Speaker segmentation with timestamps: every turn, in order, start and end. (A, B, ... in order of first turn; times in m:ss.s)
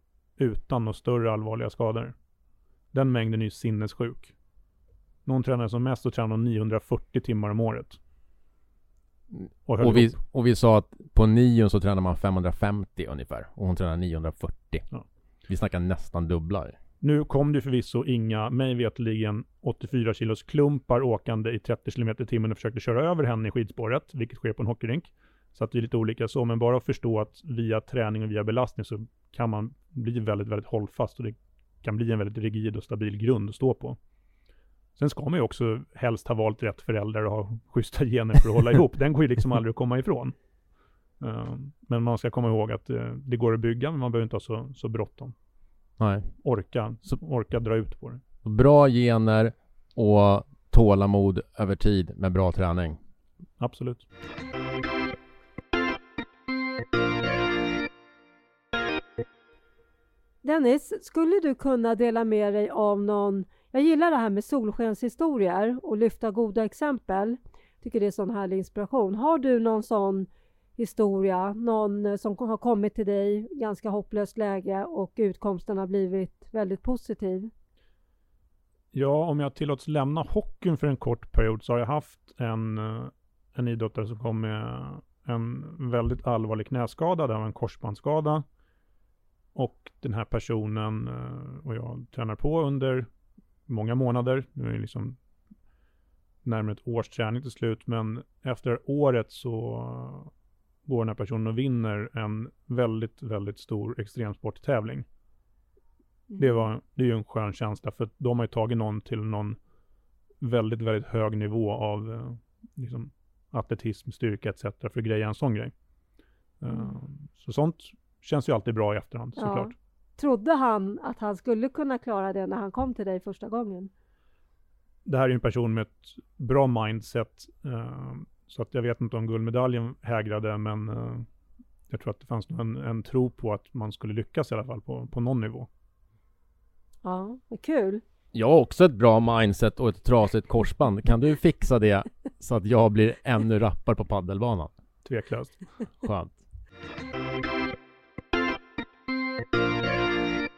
0:00.4-0:02.1 A
0:02.9-0:04.3 A
0:05.2-0:08.0 A
0:09.4-0:14.8 B
0:09.6-0:10.2 A
0:15.5-0:16.8 B
0:17.0-0:34.0 A
0:35.0-0:40.3 A
0:41.2-0:45.3 A
0:46.0-0:46.3 B
0:46.4-0:48.2 A
0:48.4-0:53.0 B
0:53.6-0:54.0 A
1:00.4-1:17.5 C
1:18.9-1:28.4 A
1:29.5-1:33.1 A
1:33.7-1:35.2 A
1:36.4-1:40.3 A
1:40.8-1:45.0 A
1:46.4-1:49.6 A
1:50.4-1:55.7 A
1:56.6-1:59.7 A
1:59.4-2:03.9 C
2:05.0-2:11.3 A
2:11.9-2:15.7 A
2:17.0-2:18.0 C
2:18.3-2:24.7 B
2:25.0-2:25.6 A
2:26.0-2:26.4 B